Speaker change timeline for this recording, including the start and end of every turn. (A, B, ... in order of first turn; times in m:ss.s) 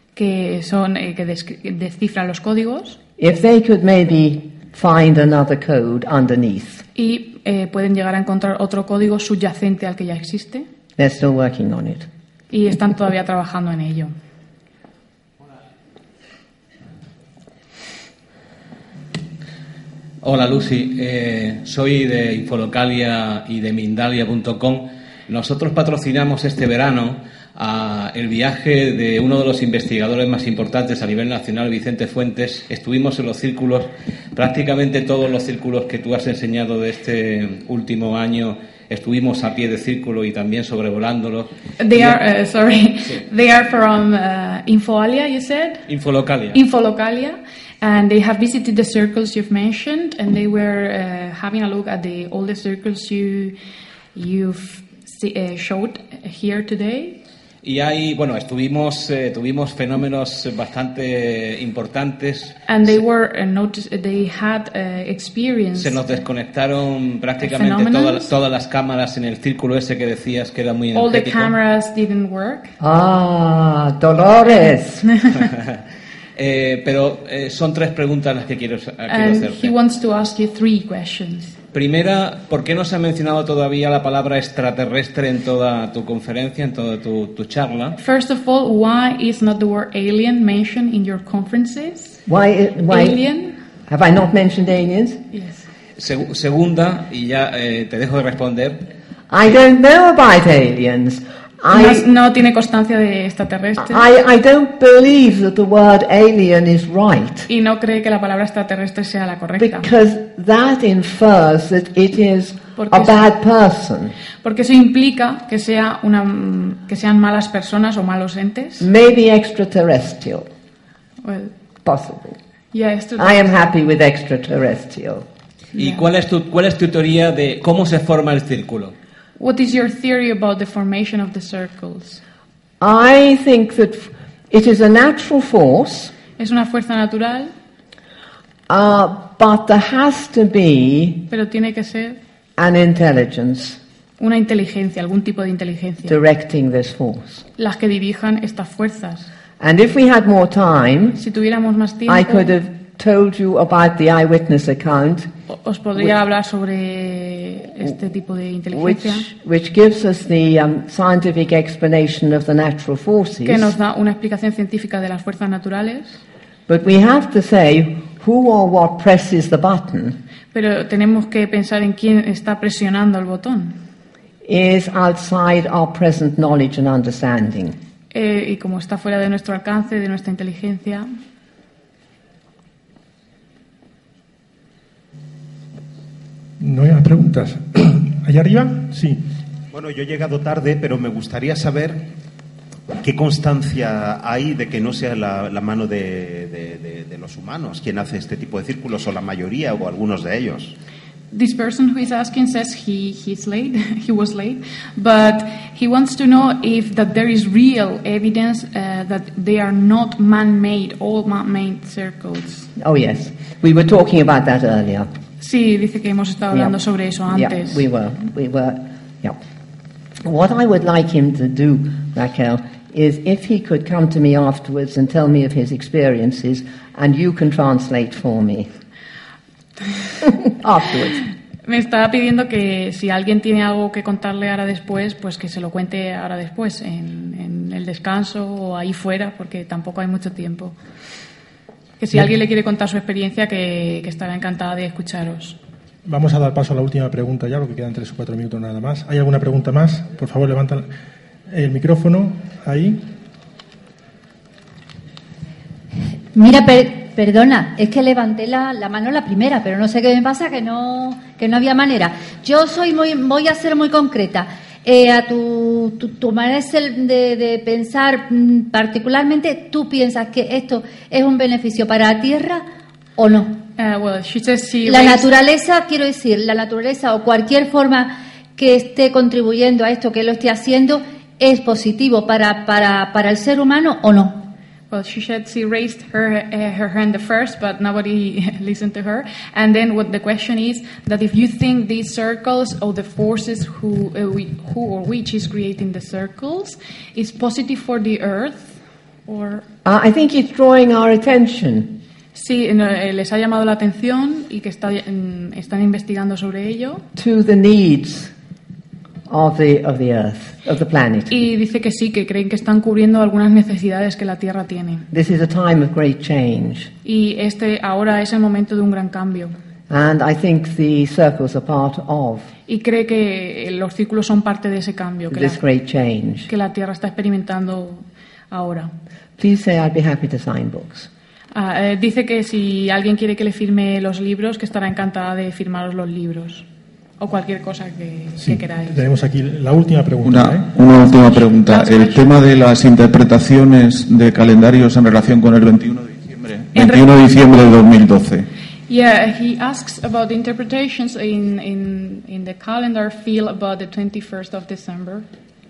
0:00.2-0:03.0 A
0:03.2-0:06.8 B
0:07.0-0:10.6 A
0:11.0-0:12.1 B
0:12.5-0:14.1 A
0:20.2-0:42.2 C
0:41.8-0:45.8 A
0:45.9-0:46.6 C
0:46.5-0:53.5 A
0:54.1-0:57.2 A
0:57.6-1:03.0 C
1:02.7-1:06.0 A
1:05.8-1:11.5 C
1:07.4-1:08.3 A
1:10.9-1:12.7 A
1:12.8-1:15.1 B
1:15.3-1:15.8 C
1:16.4-1:19.7 C
1:19.1-1:21.6 A
1:21.7-1:28.0 C
1:28.0-1:32.2 A
1:32.3-1:33.2 B
1:32.9-1:33.6 A
1:33.9-1:35.3 B
1:35.3-1:35.6 A
1:36.0-1:38.9 C
1:39.3-1:42.1 B
1:41.7-1:44.0 A
1:43.8-1:47.5 B
1:47.5-1:49.9 A
1:49.6-1:54.1 B
1:52.8-1:53.3 A
1:54.4-1:58.9 A
1:58.8-2:00.5 B
2:01.2-2:01.5 A
2:01.8-2:02.4 B
2:02.7-2:03.7 A
2:03.2-2:05.2 B
2:05.7-2:08.9 C
2:05.8-2:06.0 A
2:09.4-2:12.2 A
2:12.8-2:16.1 B
2:16.4-2:17.5 A
2:18.7-2:21.3 B
2:21.3-2:22.2 A
2:22.6-2:23.8 B
2:24.2-2:26.2 A
2:26.1-2:27.4 B
2:27.6-2:29.3 A
2:29.6-2:31.2 B
2:31.2-2:32.5 A
2:32.1-2:35.3 B
2:35.5-2:39.3 A
2:38.7-2:43.7 B
2:43.4-2:46.2 A
2:46.7-2:50.2 B
2:50.5-2:53.7 A
2:54.4-2:57.8 B
2:58.1-3:01.1 A
3:06.6-3:09.2 D
3:09.7-3:12.1 E
3:13.0-3:20.7 E
3:21.3-3:32.7 A
3:32.8-3:35.1 B
3:35.4-3:37.8 A
3:37.3-3:39.4 B
3:40.2-3:48.7 B
3:50.2-3:51.2 B
3:51.6-4:00.7 A
4:02.0-4:05.6 A
4:06.0-4:10.9 D
4:11.5-4:13.0 D
4:16.3-4:32.6 F
4:33.2-4:33.6 F
4:33.8-4:35.3 A
4:34.8-4:44.5 F
4:44.9-4:59.6 A
4:59.8-5:02.0 B
5:02.3-5:07.0 A
5:07.2-5:08.3 B
5:09.3-5:11.4 B
5:11.3-5:15.1 A
5:15.1-5:16.9 B
5:17.0-5:19.5 A
5:19.9-5:22.5 B
5:22.7-5:25.6 A
5:25.3-5:26.5 B
5:26.5-5:28.9 A
5:29.4-5:31.1 B
5:31.5-5:36.6 A
5:37.2-5:39.0 A
5:38.4-5:40.7 D
5:40.2-5:48.5 G
5:41.4-5:42.4 A
5:46.7-5:47.1 A
5:48.9-5:55.2 A